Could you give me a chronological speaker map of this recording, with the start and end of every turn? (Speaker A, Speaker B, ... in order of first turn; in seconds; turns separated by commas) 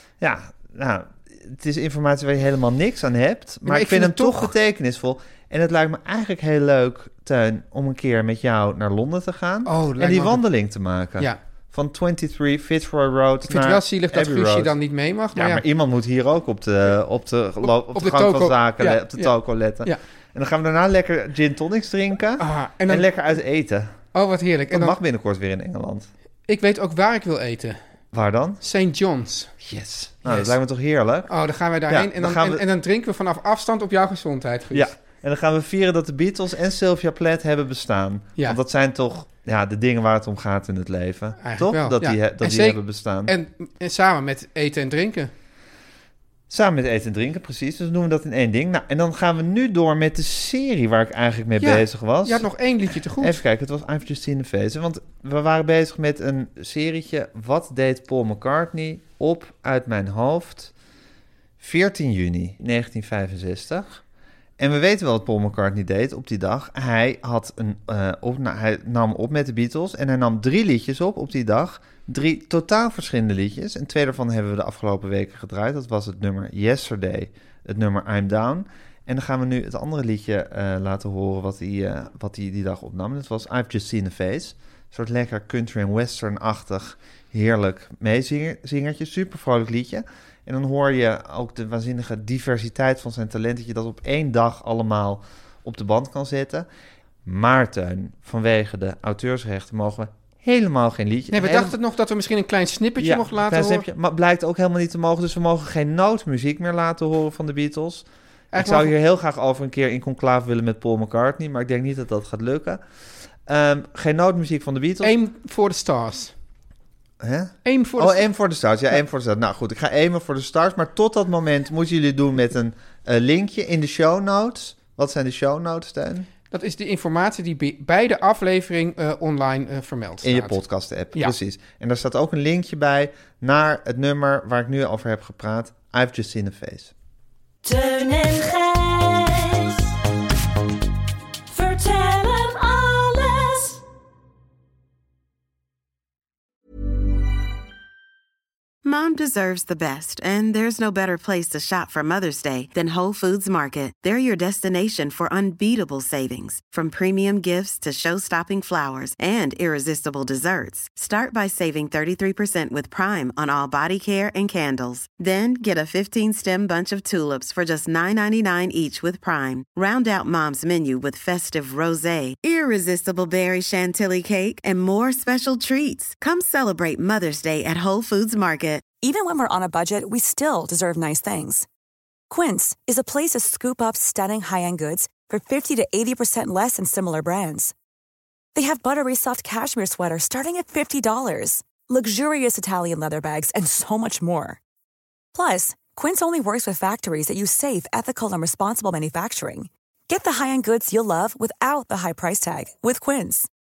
Speaker A: 0.2-14.7, Speaker B: 3.6-4.5, Speaker B: 9.7-10.4, Speaker B: 13.5-15.6, Speaker A: 15.3-23.9, Speaker B: 17.6-20.0, Speaker B: 22.4-23.1, Speaker B: 24.1-25.0, Speaker A: 24.7-26.1, Speaker B: 26.5-27.8, Speaker A: 28.1-28.6, Speaker B: 28.6-29.5, Speaker A: 29.6-31.3, Speaker B: 30.2-30.6, Speaker B: 31.2-34.9, Speaker A: 31.9-32.6, Speaker A: 34.7-43.3, Speaker B: 41.4-45.3, Speaker A: 46.5-52.5, Speaker B: 51.6-53.4, Speaker A: 53.2-60.7, Speaker A: 61.6-64.0, Speaker A: 64.6-96.7, Speaker A: 97.2-101.8, Speaker B: 101.3-103.8, Speaker A: 103.0-112.8, Speaker B: 108.5-108.9, Speaker A: 113.5-115.1, Speaker B: 115.0-116.3, Speaker A: 117.2-126.3, Speaker B: 117.6-118.2, Speaker B: 126.5-130.6, Speaker A: 130.2-136.9, Speaker C: 137.6-139.9, Speaker C: 141.5-143.8, Speaker D: 148.8-178.9, Speaker E: 179.0-181.7, Speaker E: 182.3-187.7, Speaker E: 188.5-194.6, Speaker E: 195.3-203.5